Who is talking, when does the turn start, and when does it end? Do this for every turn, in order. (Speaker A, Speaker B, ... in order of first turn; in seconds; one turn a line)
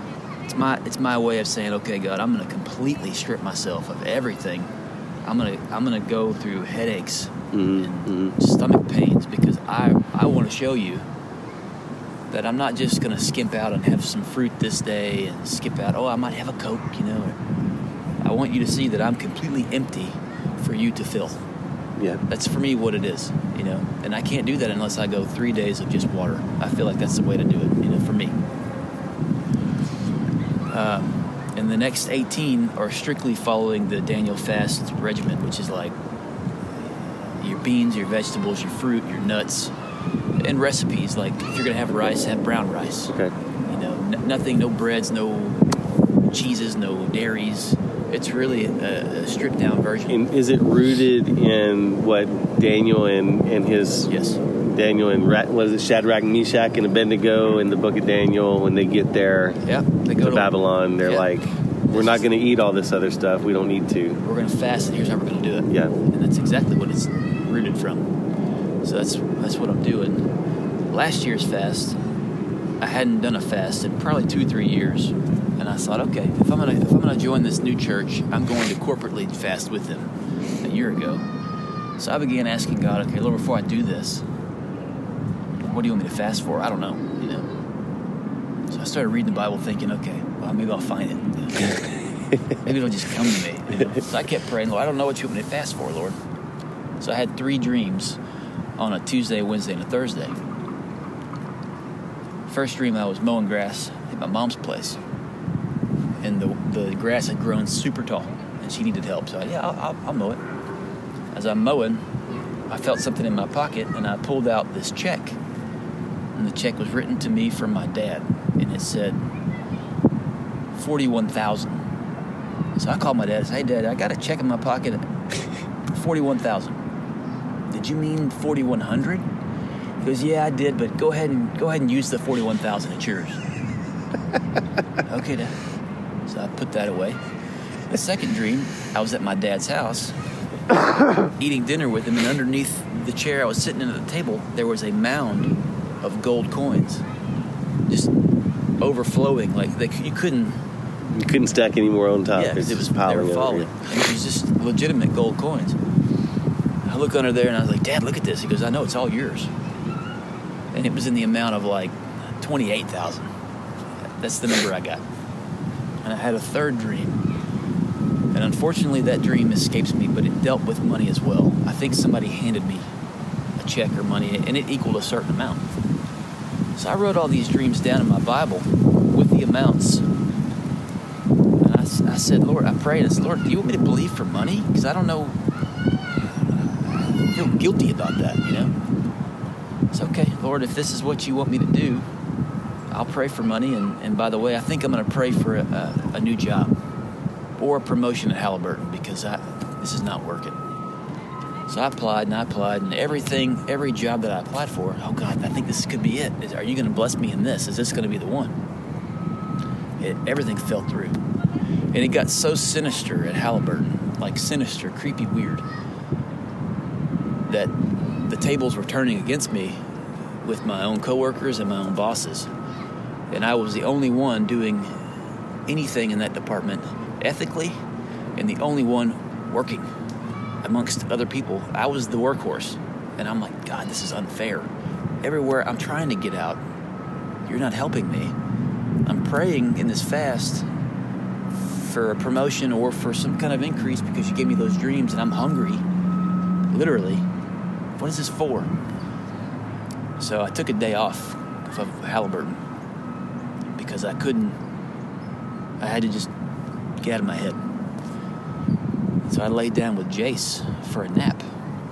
Speaker A: 0.5-4.7
Speaker A: 5.2-11.1
Speaker B: 7.5-8.3
Speaker A: 12.3-17.4
Speaker A: 18.2-21.4
Speaker B: 22.0-22.2
Speaker A: 22.3-28.4
Speaker A: 30.7-36.0
Speaker A: 37.4-39.7
Speaker A: 40.4-43.1
Speaker A: 43.7-45.8
Speaker A: 46.3-50.2
Speaker B: 50.1-54.1
Speaker A: 54.1-54.4
Speaker B: 54.6-59.6
Speaker A: 59.7-61.3
Speaker B: 60.2-64.2
Speaker A: 61.9-62.3
Speaker A: 64.2-68.1
Speaker B: 65.7-65.9
Speaker A: 68.8-70.3
Speaker A: 70.9-72.0
Speaker A: 72.8-81.2
Speaker A: 82.0-84.2
Speaker A: 85.7-87.5
Speaker A: 88.7-91.8
Speaker A: 92.6-96.2
Speaker A: 97.0-98.2
Speaker A: 98.8-100.4
Speaker A: 102.5-105.0
Speaker A: 106.2-110.4
Speaker A: 111.3-112.1
Speaker A: 112.7-115.4
Speaker A: 116.3-119.2
Speaker A: 120.8-121.8
Speaker A: 122.8-125.1
Speaker A: 125.9-126.8
Speaker A: 127.7-129.2
Speaker A: 130.0-133.4
Speaker A: 135.1-135.6
Speaker A: 136.3-137.2
Speaker A: 137.9-140.1
Speaker A: 141.3-147.0
Speaker A: 147.9-148.1
Speaker A: 148.8-150.6
Speaker B: 151.1-153.7
Speaker A: 152.3-155.8
Speaker A: 156.8-159.5
Speaker A: 160.7-163.3
Speaker A: 164.2-165.0
Speaker A: 166.0-167.2
Speaker A: 168.3-172.9
Speaker A: 173.6-175.6
Speaker A: 176.8-180.1
Speaker A: 181.6-185.4
Speaker A: 186.5-188.7
Speaker A: 189.9-192.1
Speaker A: 192.9-196.7
Speaker A: 197.6-200.6
Speaker A: 201.7-208.6
Speaker A: 210.0-211.2
Speaker A: 211.9-215.6
Speaker A: 217.5-219.8
Speaker A: 220.4-222.5
Speaker A: 223.3-224.9
Speaker A: 225.7-227.8
Speaker A: 228.4-229.9
Speaker A: 230.6-234.7
Speaker A: 235.2-236.6
Speaker A: 237.5-238.3
Speaker A: 239.1-240.7
Speaker A: 241.6-245.8
Speaker A: 246.7-247.3
Speaker A: 248.0-248.7
Speaker A: 250.2-252.6
Speaker A: 253.8-254.6
Speaker A: 255.8-256.3
Speaker A: 257.0-257.6
Speaker A: 259.2-261.5